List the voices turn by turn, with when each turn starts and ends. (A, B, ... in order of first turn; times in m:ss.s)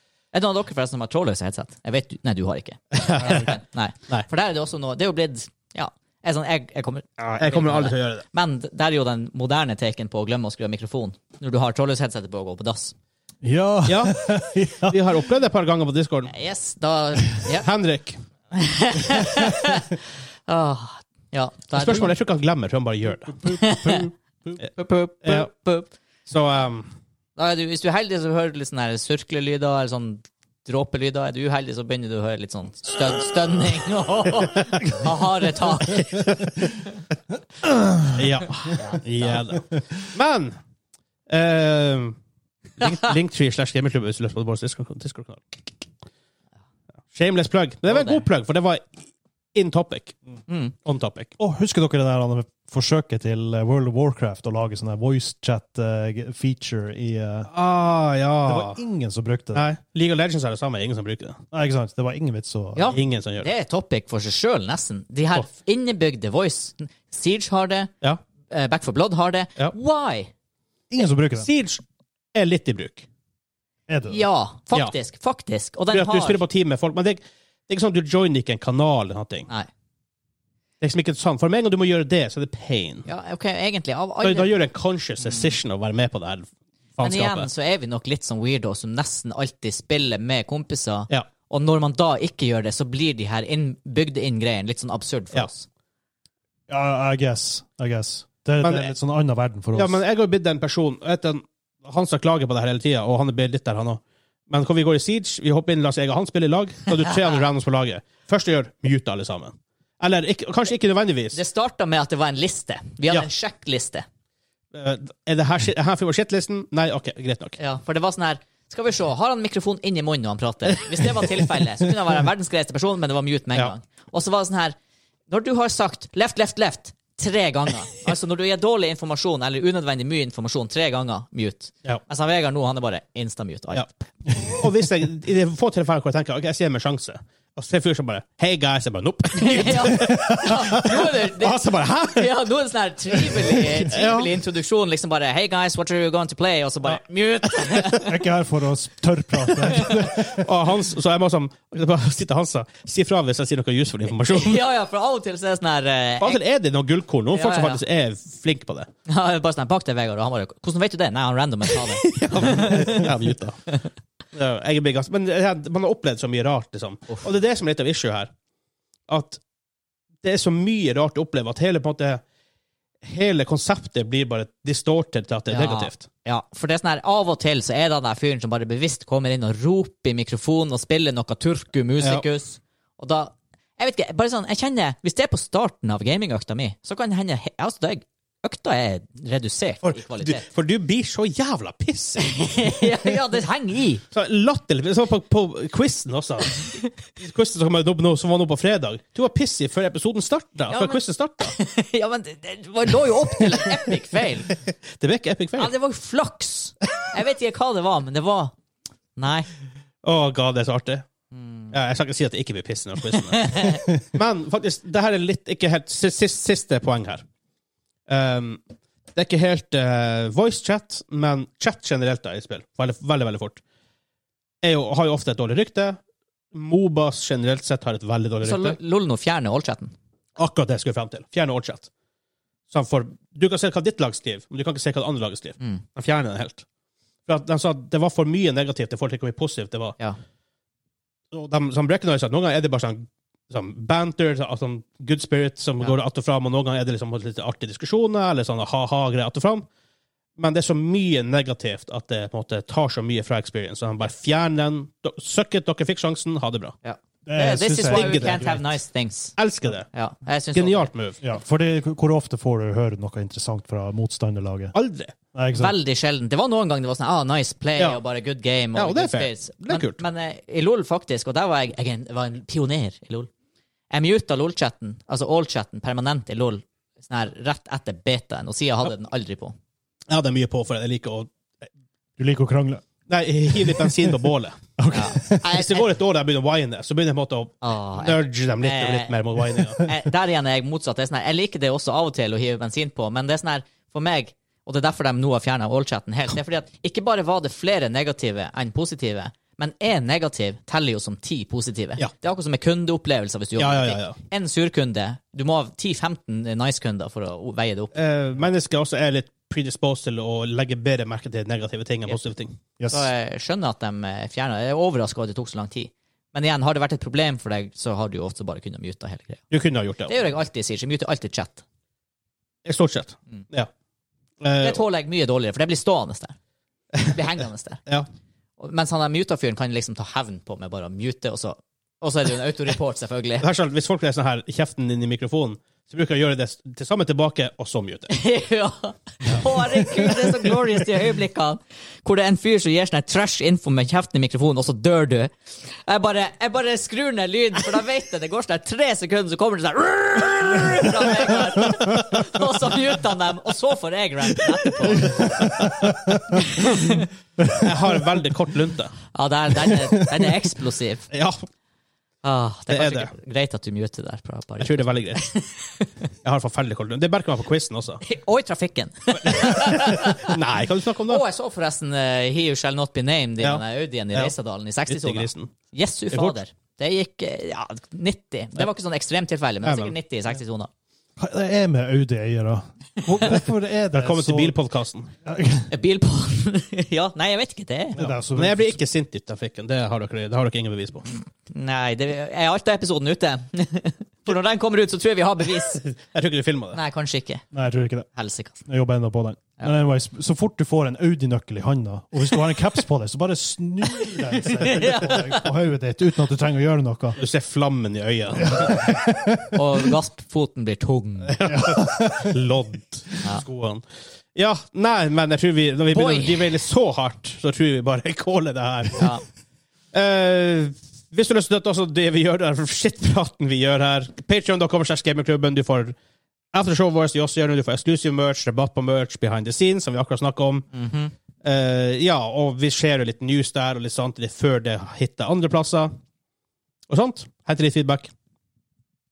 0:00.3-0:12.9 A
0:02.9-0:03.5 B
0:07.2-0:08.2 B
0:13.4-0:15.0 C
0:13.9-0:16.3 B
0:16.3-0:17.7 A
0:17.5-0:18.2 B
0:18.5-0:22.2 A
0:21.7-0:24.0 B
0:23.3-0:24.6 C
0:23.6-0:24.1 A
0:24.8-0:25.9 A
0:25.2-0:25.5 B
0:26.3-0:26.9 B
0:27.4-0:36.5 A
0:37.6-0:38.2 C
0:38.1-0:40.6 B
0:38.6-0:39.4 A
0:41.3-0:42.2 B
0:42.8-0:45.4 B
0:47.1-0:49.0 B
0:47.9-0:48.2 A
0:49.5-0:50.2 B
0:50.5-0:50.7 A
0:50.8-0:51.3 B
0:51.4-0:57.5 C
0:57.5-0:58.8 B
0:58.5-0:59.7 C
0:59.5-1:01.4 B
1:01.5-1:03.0 C
1:02.8-1:07.9 A
1:02.9-1:03.5 B
1:08.5-1:10.3 A
1:10.9-1:11.5 C
1:11.4-1:11.8 B
1:12.3-1:13.1 B
1:13.9-1:14.3 C
1:14.1-1:16.4 A
1:15.9-1:19.5 B
1:20.8-1:23.1 B
1:23.1-1:24.6 A
1:24.2-1:27.5 B
1:25.2-1:25.5 A
1:27.0-1:35.7 A
1:36.7-1:40.0 C
1:38.6-1:38.9 B
1:39.7-1:51.4 B
1:51.3-1:54.0 A
1:54.7-1:57.6 B
1:57.6-2:04.8 A
2:01.2-2:01.5 B
2:05.3-2:14.0 A
2:14.4-2:22.3 B
2:19.4-2:28.2 A
2:20.0-2:20.5 C
2:23.9-2:24.3 B
2:28.0-2:30.5 C
2:29.6-2:30.1 A
2:30.1-2:34.6 B
2:34.3-2:36.4 A
2:36.2-2:38.9 B
2:37.3-2:37.8 A
2:39.1-2:43.1 A
2:42.1-2:43.6 B
2:44.3-2:48.3 B
2:49.1-2:49.4 B
2:50.2-2:52.2 B
2:53.0-2:56.1 B
2:55.5-3:10.5 A
3:09.8-3:12.9 B
3:12.3-3:14.0 A
3:14.1-3:21.6 B
3:20.7-3:24.6 A
3:24.7-3:25.7 B
3:25.6-3:28.5 A
3:29.2-3:29.5 A
3:30.0-3:31.1 B
3:31.3-3:31.7 A
3:31.7-3:37.2 B
3:33.3-3:33.8 A
3:38.1-3:38.6 B
3:39.2-3:43.6 B
3:44.6-3:46.0 B
3:46.5-3:48.8 B
3:48.4-3:49.9 A
3:50.4-3:51.9 B
3:52.7-3:56.6 B
3:57.3-4:00.0 B
4:01.3-4:09.7 B
4:10.4-4:16.7 B
4:16.8-4:19.4 A
4:17.3-4:18.5 C
4:17.9-4:18.7 B
4:19.4-4:19.9 B
4:19.9-4:20.9 A
4:20.5-4:21.2 B
4:21.2-4:24.7 C
4:24.7-4:25.1 B
4:25.3-4:25.8 C
4:25.5-4:33.3 A
4:28.8-4:30.0 B
4:33.9-4:39.5 A
4:40.1-4:41.3 B
4:42.2-4:42.8 C
4:43.1-4:44.6 B
4:43.5-4:44.1 C
4:44.8-4:45.5 C
4:44.9-4:45.9 A
4:45.3-4:49.9 B
4:47.6-5:07.9 A
5:03.6-5:04.2 B
5:07.9-5:12.6 B
5:12.8-5:13.1 C
5:12.9-5:19.5 A
5:19.5-5:20.2 B
5:20.1-5:21.6 A
5:22.6-5:23.7 B
5:24.4-5:24.8 B
5:24.6-5:26.4 A
5:27.0-5:27.8 A
5:28.6-5:33.5 A
5:33.4-5:38.1 B
5:38.1-5:55.6 A
5:54.9-5:56.4 C
5:55.4-5:55.7 B
5:56.4-5:57.1 A
5:57.4-5:57.7 C
5:57.6-5:59.0 B
5:59.1-6:01.1 A
5:59.7-6:00.5 C
6:01.1-6:01.4 B
6:02.2-6:05.9 A
6:02.7-6:03.1 B
6:04.6-6:05.3 B
6:06.2-6:08.0 B
6:08.0-6:10.4 A
6:09.2-6:11.2 B
6:11.1-6:20.7 A
6:13.4-6:14.3 B
6:14.9-6:15.6 B
6:16.1-6:16.4 B
6:19.6-6:20.0 B
6:21.2-6:24.6 C
6:23.9-6:25.1 B
6:25.2-6:25.7 C
6:25.7-6:28.0 A
6:28.0-6:28.8 C
6:28.0-6:31.1 B
6:31.5-6:35.8 A
6:35.8-6:36.8 B
6:36.7-6:37.4 A
6:37.5-6:38.1 C
6:38.2-6:38.6 A
6:38.7-6:47.2 C
6:44.0-6:45.5 A
6:47.2-6:48.9 B
6:48.4-6:49.9 C
6:48.5-6:51.4 A
6:51.3-6:59.2 B
6:51.5-6:52.4 C
6:55.9-6:56.5 A
6:59.0-6:59.2 A
6:59.9-7:06.0 B
7:06.5-7:10.7 B
7:10.7-7:11.1 A
7:11.4-7:16.0 B
7:16.9-7:18.1 B